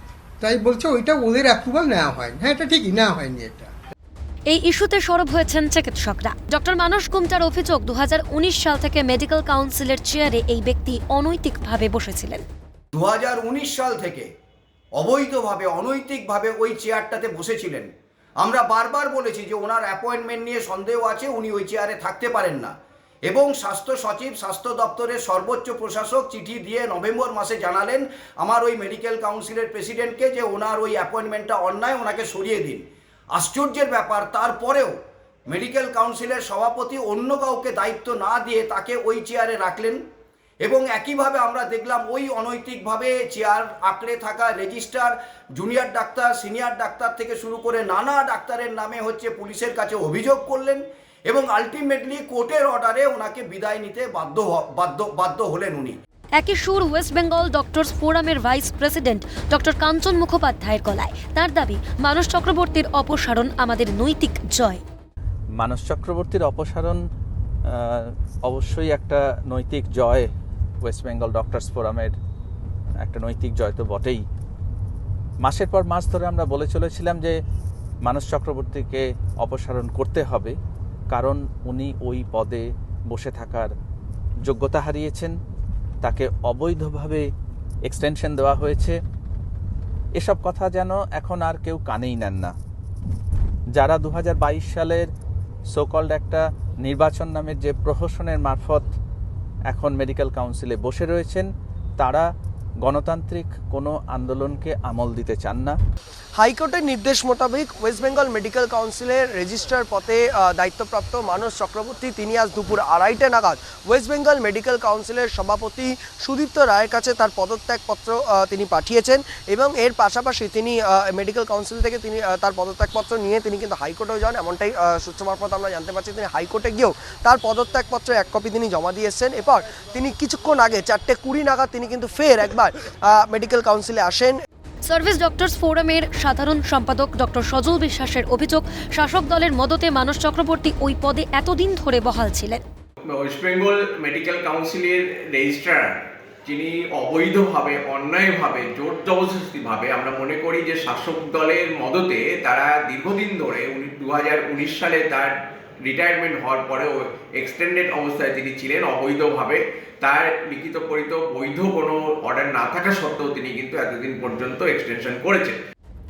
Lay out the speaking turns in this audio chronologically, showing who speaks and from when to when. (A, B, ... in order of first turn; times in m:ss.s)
0:00.4-0:03.7 A
0:04.5-0:12.4 B
0:12.9-0:14.3 C
0:15.0-0:17.9 C
0:18.4-0:22.7 C
0:23.2-0:34.9 C
0:35.5-0:40.0 C
0:40.6-0:56.0 C
0:56.4-1:04.8 B
1:05.6-1:07.0 D
1:07.7-1:10.3 D
1:10.8-1:12.2 D
1:13.0-1:14.2 D
1:15.4-1:17.4 D
1:18.0-1:20.5 D
1:21.1-1:23.7 D
1:24.4-1:25.3 D
1:26.0-1:27.3 D
1:27.8-1:29.0 D
1:30.2-1:32.5 D
1:33.7-1:35.1 D
1:35.7-1:38.9 D
1:39.7-1:42.3 D
1:42.8-1:45.7 D
1:46.4-2:14.4 E
2:14.8-2:22.6 B
2:23.1-2:45.6 F